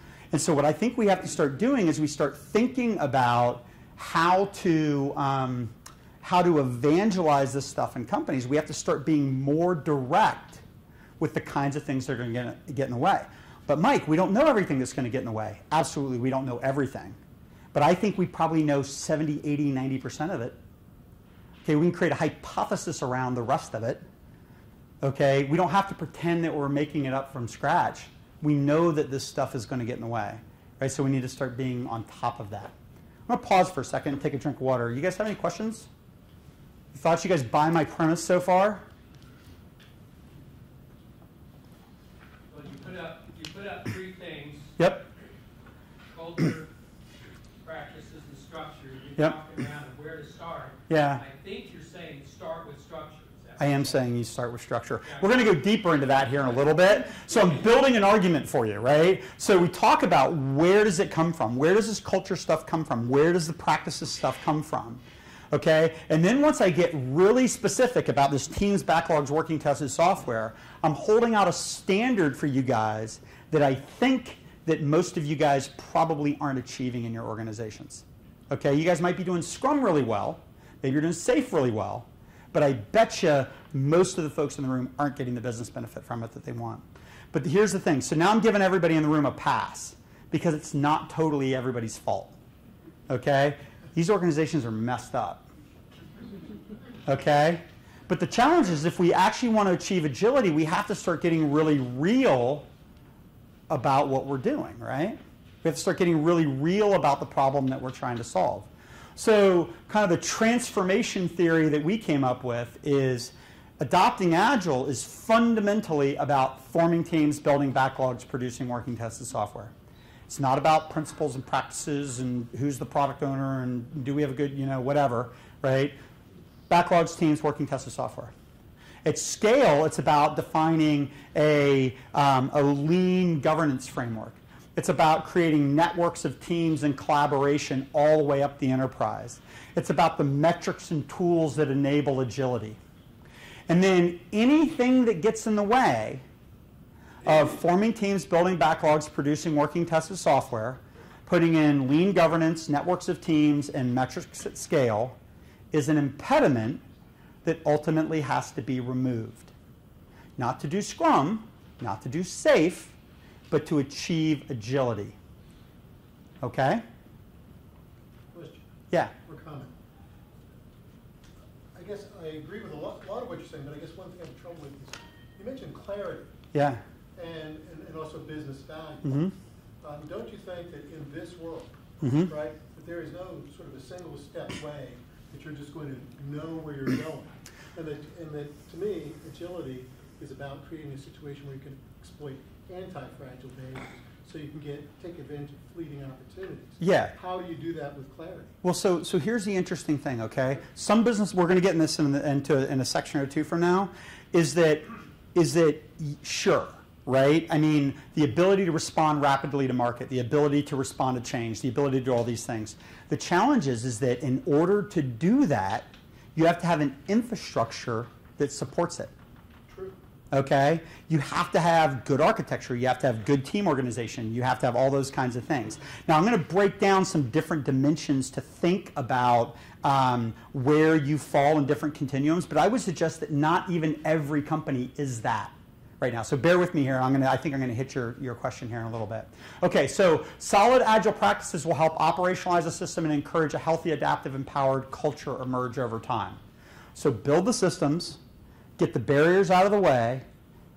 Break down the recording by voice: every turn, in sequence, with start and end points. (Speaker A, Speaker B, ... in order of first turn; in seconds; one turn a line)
Speaker A: 0.3-10.6
Speaker A: 11.2-17.2
Speaker A: 17.7-20.6
Speaker A: 21.6-24.1
Speaker A: 25.0-32.7
Speaker A: 33.3-35.9
Speaker A: 36.9-38.9
Speaker B: 42.5-44.8
Speaker A: 44.8-45.1
Speaker B: 46.1-46.7
Speaker B: 47.6-54.1
Speaker A: 50.9-51.2
Speaker A: 53.6-92.4
Speaker B: 55.0-55.5
Speaker A: 93.1-95.5
Speaker A: 97.1-102.7
Speaker A: 103.7-119.7
Speaker A: 120.3-126.0
Speaker A: 126.7-128.3
Speaker A: 129.0-142.8
Speaker A: 143.7-146.2
Speaker A: 147.2-155.2
Speaker A: 155.7-156.8
Speaker A: 157.4-159.5
Speaker A: 160.4-163.0
Speaker A: 163.5-165.2
Speaker A: 166.4-166.8
Speaker C: 168.3-168.6
Speaker C: 169.2-169.7
Speaker C: 171.7-176.3
Speaker A: 176.5-176.8
Speaker C: 177.2-179.2
Speaker A: 179.1-179.3
Speaker C: 179.8-198.6
Speaker A: 182.0-182.3
Speaker A: 196.8-197.2
Speaker A: 198.6-219.1
Speaker A: 220.3-246.4
Speaker A: 246.9-248.2
Speaker A: 248.8-250.3